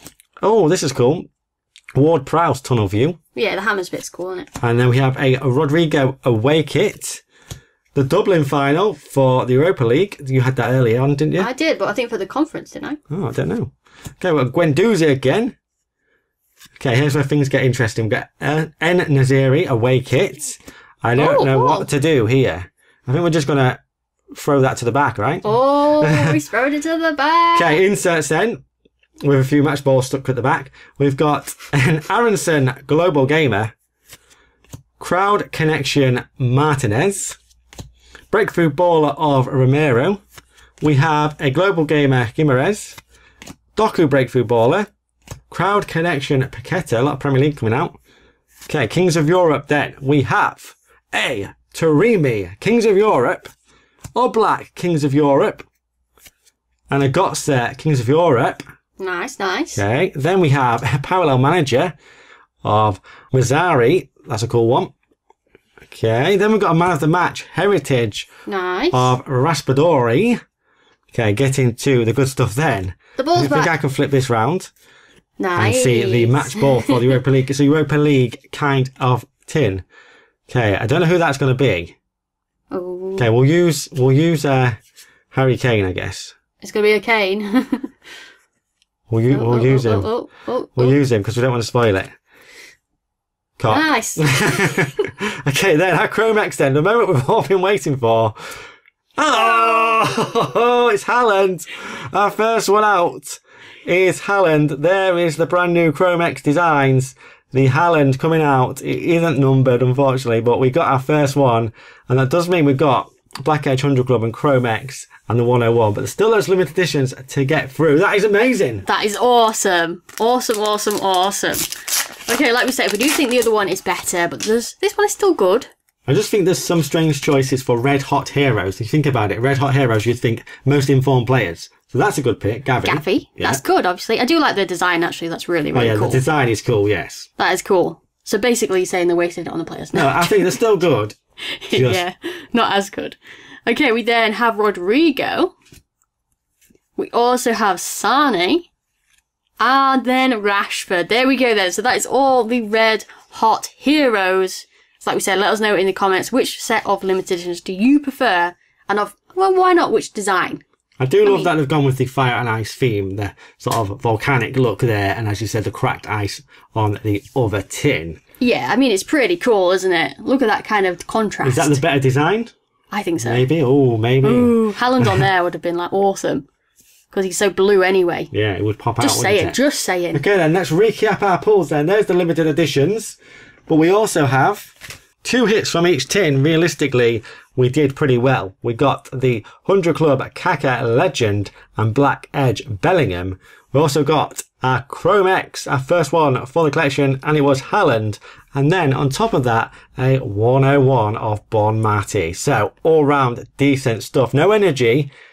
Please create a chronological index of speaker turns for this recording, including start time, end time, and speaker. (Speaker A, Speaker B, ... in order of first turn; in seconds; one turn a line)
Speaker A: 0.4-1.3
Speaker A: 1.9-3.2
Speaker B: 3.3-4.5
Speaker A: 4.6-7.2
Speaker A: 7.9-11.5
Speaker B: 11.4-13.0
Speaker A: 13.1-15.5
Speaker A: 16.8-23.8
Speaker B: 21.2-21.9
Speaker A: 24.3-26.3
Speaker B: 25.4-27.8
Speaker A: 27.5-28.6
Speaker A: 29.2-33.7
Speaker A: 35.0-37.4
Speaker A: 38.3-40.2
Speaker A: 40.8-43.0
Speaker A: 43.8-44.9
Speaker A: 45.5-48.0
Speaker A: 48.7-53.5
Speaker A: 54.1-55.6
Speaker A: 56.9-58.6
Speaker B: 59.0-59.8
Speaker A: 59.8-61.9
Speaker A: 62.6-64.9
Speaker A: 65.9-68.3
Speaker B: 68.5-69.1
Speaker A: 68.9-70.4
Speaker A: 71.1-74.7
Speaker B: 73.2-73.8
Speaker B: 75.4-77.2
Speaker A: 75.5-79.8
Speaker A: 80.5-81.9
Speaker B: 82.7-83.2
Speaker A: 83.2-84.8
Speaker A: 85.3-86.3
Speaker B: 86.6-87.9
Speaker A: 89.1-90.1
Speaker B: 89.3-91.0
Speaker A: 90.8-92.1
Speaker A: 93.6-98.3
Speaker B: 93.7-95.0
Speaker A: 99.2-118.8
Speaker B: 118.8-125.7
Speaker A: 126.1-133.6
Speaker B: 132.8-136.2
Speaker A: 135.7-137.3
Speaker B: 137.4-140.6
Speaker A: 139.9-141.2
Speaker B: 141.5-145.5
Speaker A: 141.7-142.0
Speaker B: 146.9-148.7
Speaker B: 149.6-160.6
Speaker A: 161.0-168.2
Speaker B: 161.2-161.5
Speaker B: 168.4-171.8
Speaker A: 171.4-172.5
Speaker B: 172.9-173.5
Speaker A: 173.2-175.2
Speaker B: 174.2-176.4
Speaker B: 177.1-178.3
Speaker A: 178.3-179.6
Speaker B: 179.0-180.2
Speaker A: 180.1-183.2
Speaker A: 183.7-205.1